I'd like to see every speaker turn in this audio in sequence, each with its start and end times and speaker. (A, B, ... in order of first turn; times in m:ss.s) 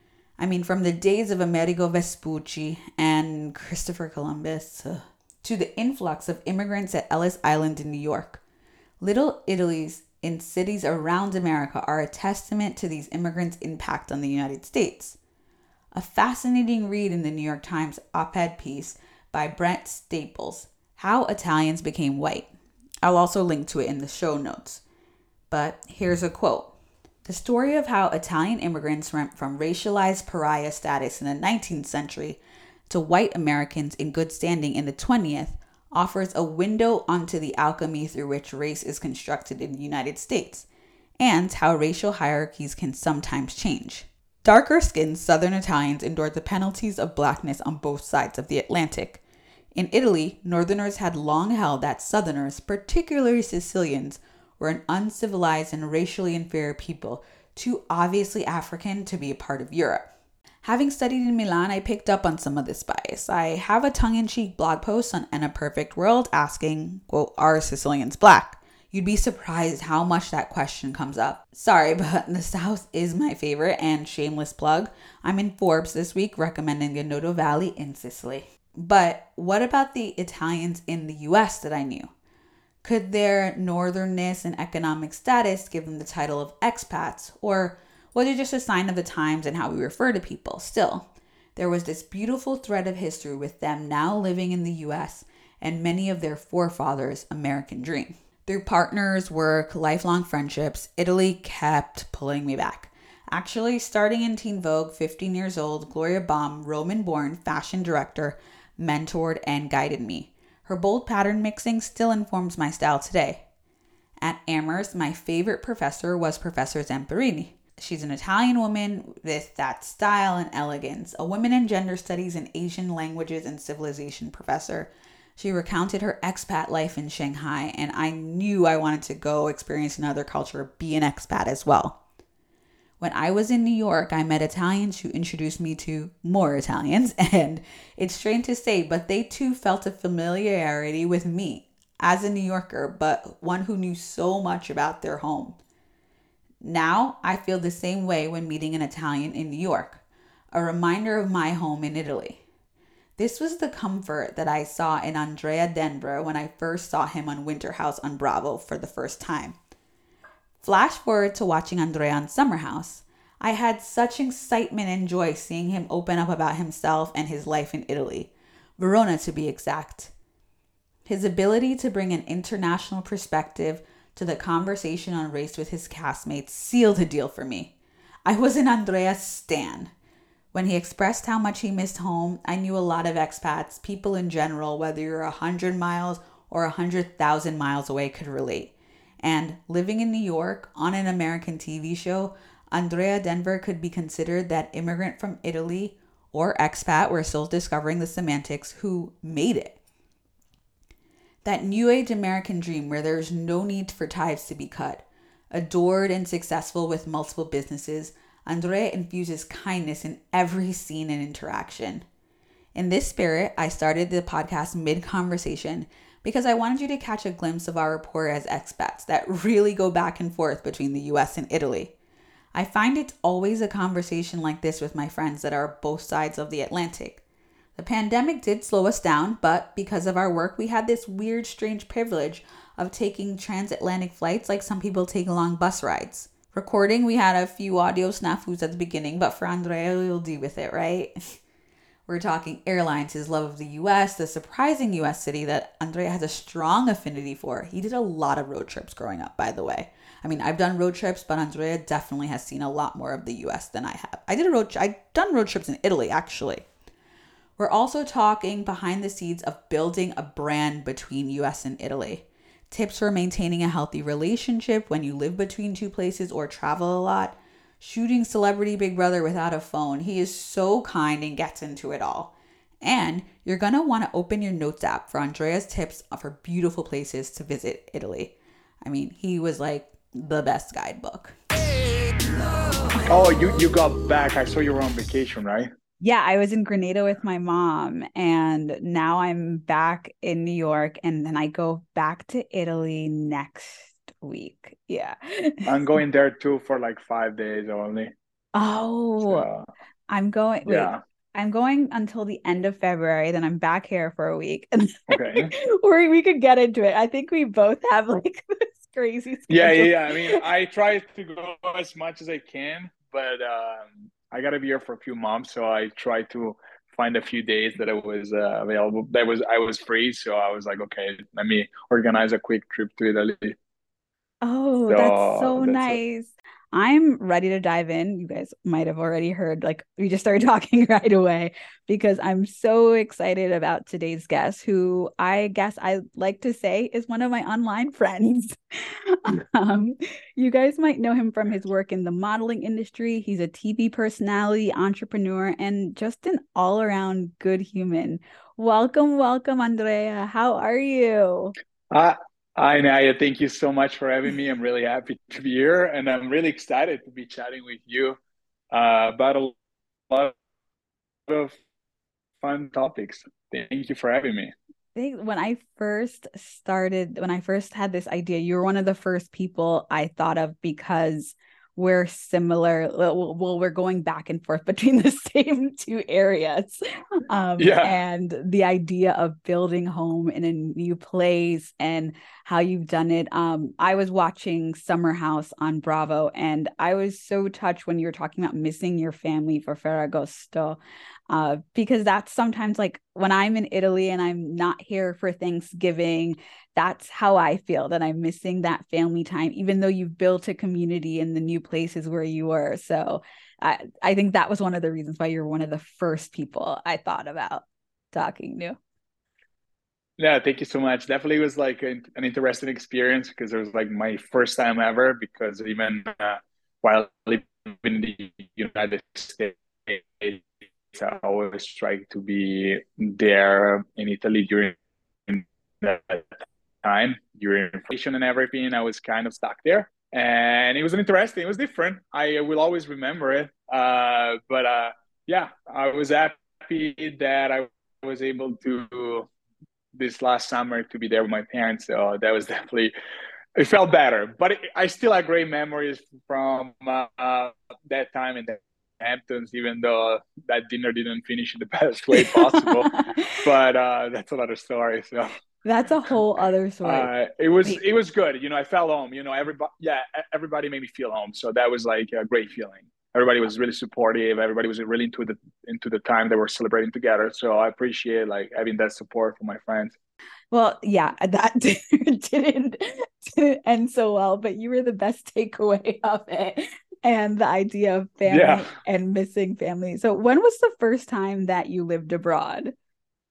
0:00.4-0:08.4 A
0:09.0-0:15.2 A
0:15.9-0:22.5 A
0:23.0-0:24.8 A
0:25.5-0:26.7 A
0:27.2-0:40.7 A
0:41.2-0:49.2 A
0:49.8-1:00.1 A
1:00.6-1:22.1 A
1:22.8-1:53.4 A
1:54.2-2:12.0 A
2:13.0-2:25.6 A
2:26.6-2:30.0 A
2:30.5-2:32.4 A
2:33.2-2:39.6 A
2:40.6-2:50.1 A
2:51.1-2:57.7 A
2:58.3-2:59.9 A
3:00.5-3:19.8 A
3:21.4-3:32.0 A
3:32.8-3:41.9 A
3:42.5-3:47.2 A
3:47.8-4:01.1 A
4:02.1-4:16.6 A
4:17.6-4:41.4 A
4:43.1-4:45.7 B
4:46.0-4:55.9 A
4:55.7-4:58.1 B
4:58.6-4:59.5 A
4:59.2-4:59.7 B
5:00.1-5:10.4 A
5:00.7-5:01.0 B
5:05.1-5:05.5 B
5:09.5-5:23.6 B
5:24.4-5:51.5 A
5:24.9-5:26.0 B
5:51.9-5:58.2 B
5:58.7-5:59.5 B
6:01.3-6:01.6 B
6:02.4-6:04.5 B
6:05.0-6:30.8 A
6:17.6-6:18.0 B
6:31.3-6:48.8 A
6:50.2-7:04.8 B
7:05.3-7:19.3 B
7:19.9-7:22.9 B
7:23.6-7:35.4 B
7:32.1-7:33.4 A
7:35.6-7:37.1 A
7:36.8-7:49.9 B
7:50.5-8:02.8 A
7:58.3-7:58.7 B